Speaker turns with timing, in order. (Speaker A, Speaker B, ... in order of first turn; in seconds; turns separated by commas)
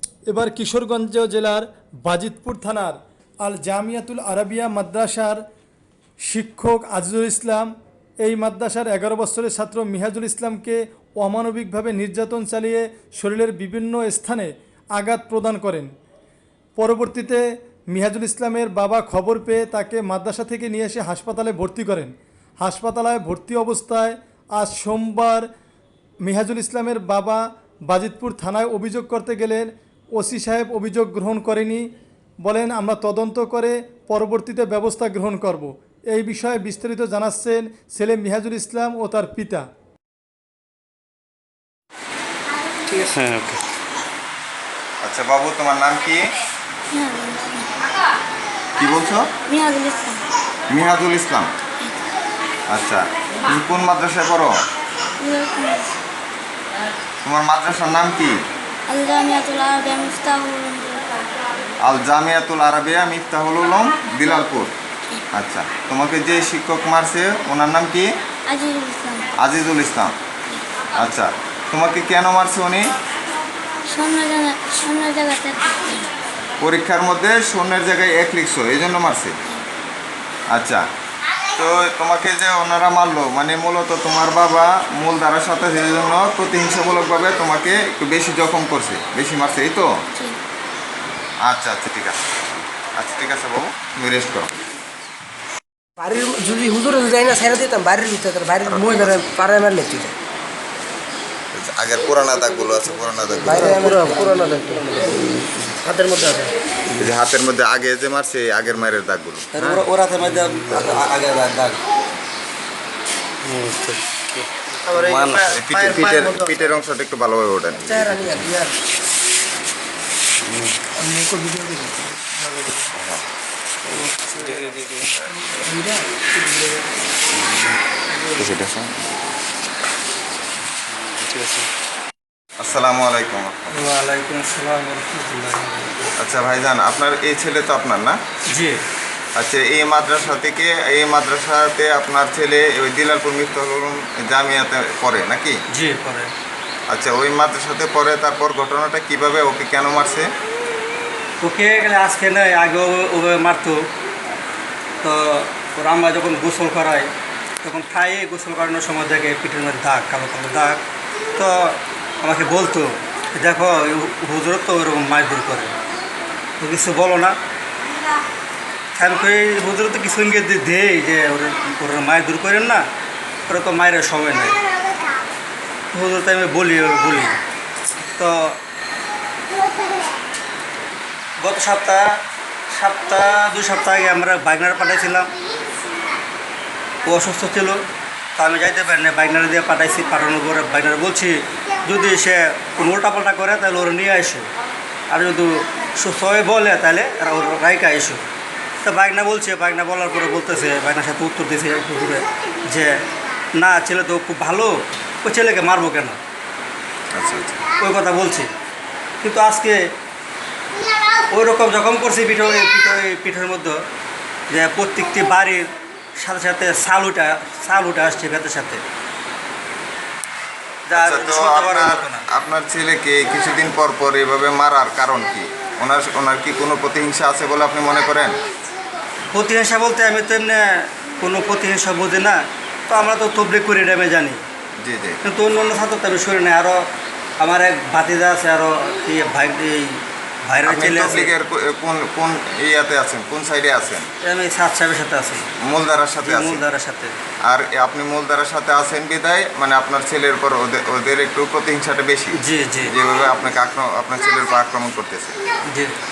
Speaker A: 0.3-5.4, Speaker A: 6.3-7.7, Speaker A: 8.2-15.9, Speaker A: 16.8-25.4, Speaker A: 26.2-31.9, Speaker A: 32.4-39.6, Speaker B: 45.0-46.3, Speaker C: 46.9-47.7, Speaker B: 48.8-49.3, Speaker C: 49.5-50.2, Speaker B: 50.7-51.5, Speaker B: 52.7-54.6, Speaker C: 55.2-55.9, Speaker B: 57.2-58.4, Speaker C: 58.9-61.0, Speaker B: 61.8-64.7, Speaker B: 65.3-68.1, Speaker C: 68.5-69.3, Speaker B: 69.4-70.1, Speaker B: 70.9-72.8, Speaker C: 73.9-76.1, Speaker B: 76.6-79.4, Speaker B: 80.5-80.8, Speaker B: 81.5-89.9, Speaker C: 90.1-90.4, Speaker B: 91.4-92.3, Speaker B: 93.0-94.5, Speaker D: 96.0-100.1, Speaker B: 98.6-99.2, Speaker B: 101.5-104.0, Speaker D: 103.4-105.0, Speaker E: 104.0-104.3, Speaker D: 105.9-106.5, Speaker B: 106.9-109.8, Speaker E: 109.5-111.8, Speaker E: 113.5-116.1, Speaker B: 115.5-118.5, Speaker D: 117.8-118.8, Speaker D: 121.0-122.7, Speaker B: 122.9-123.2, Speaker D: 125.6-126.0, Speaker B: 128.3-129.3, Speaker B: 132.6-133.8, Speaker E: 133.7-136.1, Speaker B: 136.2-138.2, Speaker E: 138.5-138.8, Speaker B: 139.3-145.6, Speaker E: 145.7-146.3, Speaker B: 146.9-150.3, Speaker E: 151.4-153.9, Speaker E: 155.0-157.1, Speaker E: 157.6-160.8, Speaker E: 161.3-165.7, Speaker E: 166.6-167.3, Speaker E: 168.9-172.8, Speaker E: 173.5-174.6, Speaker E: 175.9-177.4, Speaker E: 178.2-178.6, Speaker E: 181.4-182.2, Speaker E: 182.7-185.3, Speaker E: 187.0-187.8, Speaker E: 188.3-194.5, Speaker E: 195.1-198.2, Speaker E: 198.8-203.0, Speaker E: 203.6-206.2, Speaker B: 207.1-207.6, Speaker E: 207.8-208.5, Speaker E: 209.2-209.8, Speaker E: 211.3-213.8, Speaker E: 214.5-218.8, Speaker E: 220.9-222.2, Speaker B: 220.9-228.4, Speaker E: 229.3-234.4, Speaker B: 234.8-235.2, Speaker E: 235.2-236.9, Speaker E: 237.4-241.3, Speaker B: 240.6-244.1, Speaker E: 244.2-245.5, Speaker B: 245.6-246.6, Speaker E: 246.2-247.1, Speaker B: 247.5-255.4, Speaker E: 252.3-252.9, Speaker E: 255.7-255.9